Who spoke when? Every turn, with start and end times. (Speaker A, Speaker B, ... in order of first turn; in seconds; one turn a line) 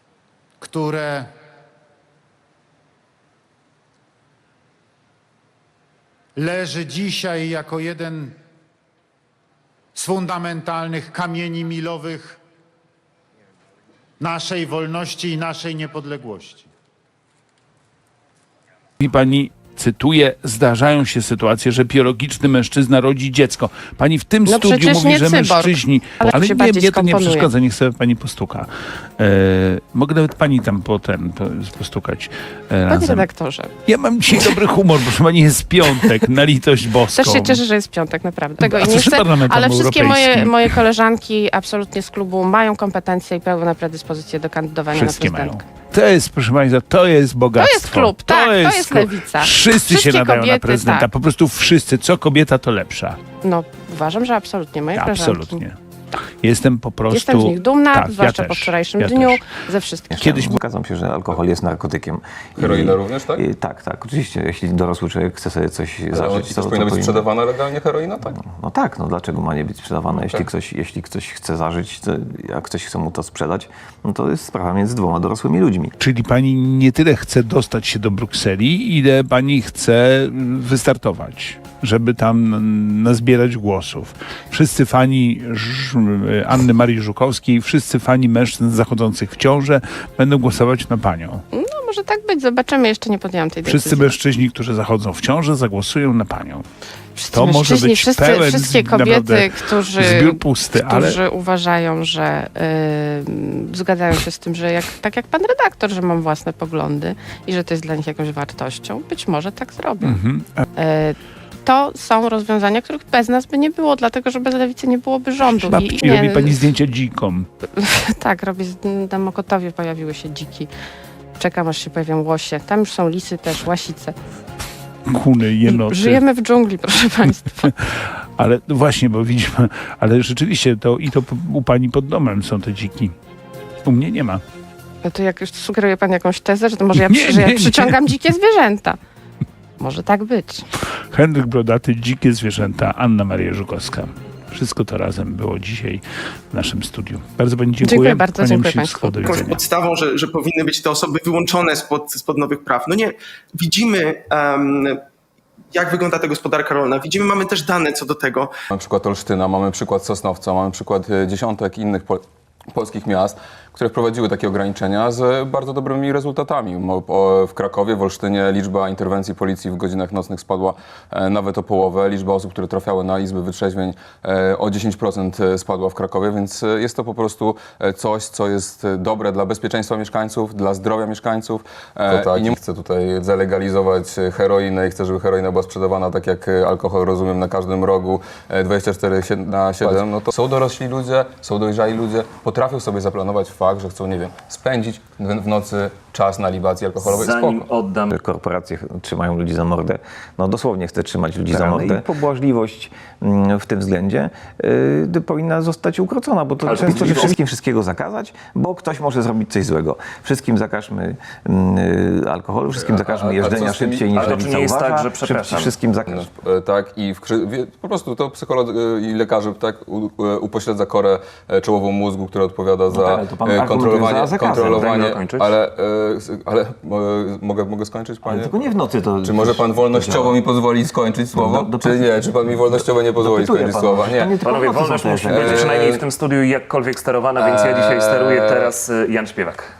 Speaker A: 0.6-1.3
Speaker A: 6.4-8.3
Speaker A: 9.9-12.4
Speaker A: 14.2-16.7
Speaker B: 19.0-33.3
Speaker C: 24.4-27.5
Speaker C: 32.9-33.7
Speaker B: 33.9-37.6
Speaker C: 37.0-45.6
Speaker B: 38.6-40.8
Speaker B: 44.9-53.2
Speaker C: 47.5-51.1
Speaker C: 53.4-55.6
Speaker B: 54.9-55.8
Speaker B: 56.4-59.4
Speaker C: 57.1-60.1
Speaker D: 60.1-67.3
Speaker B: 60.1-60.6
Speaker E: 62.6-63.4
Speaker E: 66.1-68.3
Speaker D: 68.4-75.9
Speaker E: 70.1-70.5
Speaker B: 76.0-91.4
Speaker C: 91.5-94.1
Speaker B: 93.6-96.6
Speaker C: 97.2-110.2
Speaker B: 97.3-101.2
Speaker B: 110.0-110.6
Speaker C: 110.7-116.7
Speaker B: 115.4-117.5
Speaker C: 117.8-120.7
Speaker C: 121.4-124.1
Speaker B: 125.1-126.2
Speaker C: 125.6-127.7
Speaker B: 127.6-133.1
Speaker B: 133.8-134.4
Speaker C: 135.0-139.0
Speaker B: 136.9-138.0
Speaker C: 139.8-140.6
Speaker B: 141.1-149.6
Speaker C: 147.8-149.2
Speaker F: 149.2-155.0
Speaker F: 155.7-158.5
Speaker E: 158.7-197.7
Speaker D: 198.1-216.3
Speaker G: 206.7-207.3
Speaker E: 212.7-214.5
Speaker G: 214.4-215.4
Speaker E: 216.1-234.4
Speaker D: 222.9-225.5
Speaker D: 228.2-230.4
Speaker D: 231.3-232.1
Speaker D: 232.7-235.8
Speaker G: 234.6-239.4
Speaker E: 235.3-236.0
Speaker E: 237.3-238.7